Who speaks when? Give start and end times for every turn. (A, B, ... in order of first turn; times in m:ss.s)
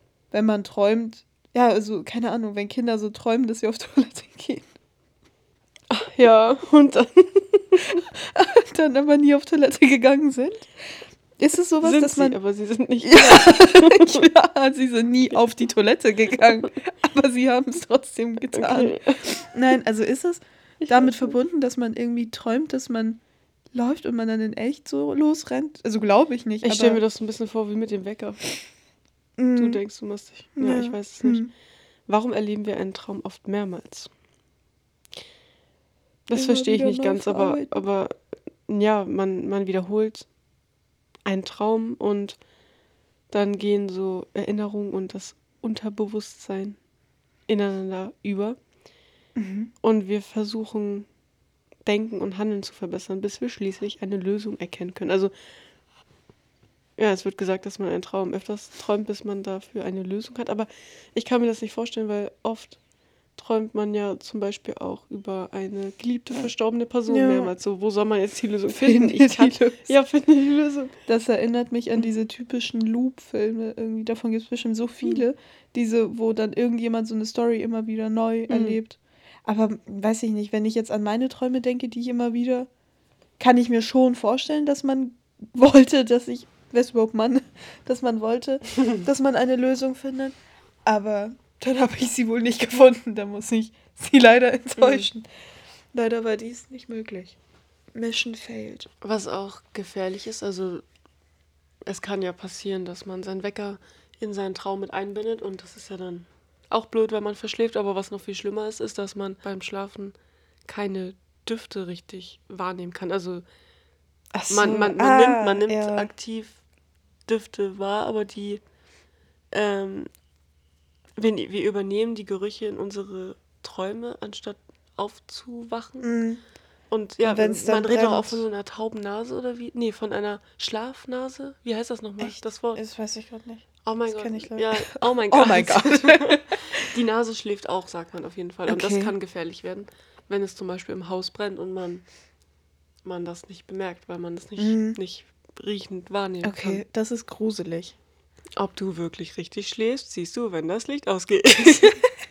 0:00.3-0:04.7 A
0:05.9-0:08.0 B
0:08.1-0:10.7 A
0:11.4-0:12.4 A
0:11.8-0:14.3 B
0:13.0-0:23.2 A
0:18.5-0:19.4 B
0:20.8-0:21.3 B
0:23.7-0:27.0 A
0:26.6-0:28.5 B
0:29.4-0:29.8 A
0:29.6-0:31.5 B
0:30.6-0:31.5 A
0:32.1-0:34.1 B
0:36.3-0:40.3 B
0:36.3-0:37.8 A
0:41.3-0:42.4 B
0:43.3-0:46.8 B
0:47.5-0:48.6 B
0:49.4-0:49.7 A
0:49.8-0:51.1 B
0:51.8-0:55.3 B
0:57.0-1:02.8 B
1:03.4-1:11.0 B
1:07.1-1:07.5 A
1:08.8-1:10.0 A
1:11.1-1:22.7 A
1:18.5-1:18.8 B
1:23.4-1:35.3 A
1:34.8-1:35.1 B
1:35.9-1:37.4 A
1:37.9-1:38.9 A
1:39.0-1:40.8 B
1:41.8-1:53.4 B
1:54.3-1:56.1 A
1:54.5-1:56.6 B
1:57.3-1:58.6 B
1:59.5-2:00.1 B
2:01.2-2:06.1 B
2:06.0-2:06.4 A
2:06.9-2:12.8 B
2:07.2-2:08.4 A
2:12.2-2:16.9 A
2:13.8-2:22.1 B
2:18.7-2:19.1 A
2:23.0-2:26.8 B
2:24.6-2:25.0 A
2:26.4-2:28.0 A
2:28.6-2:32.0 B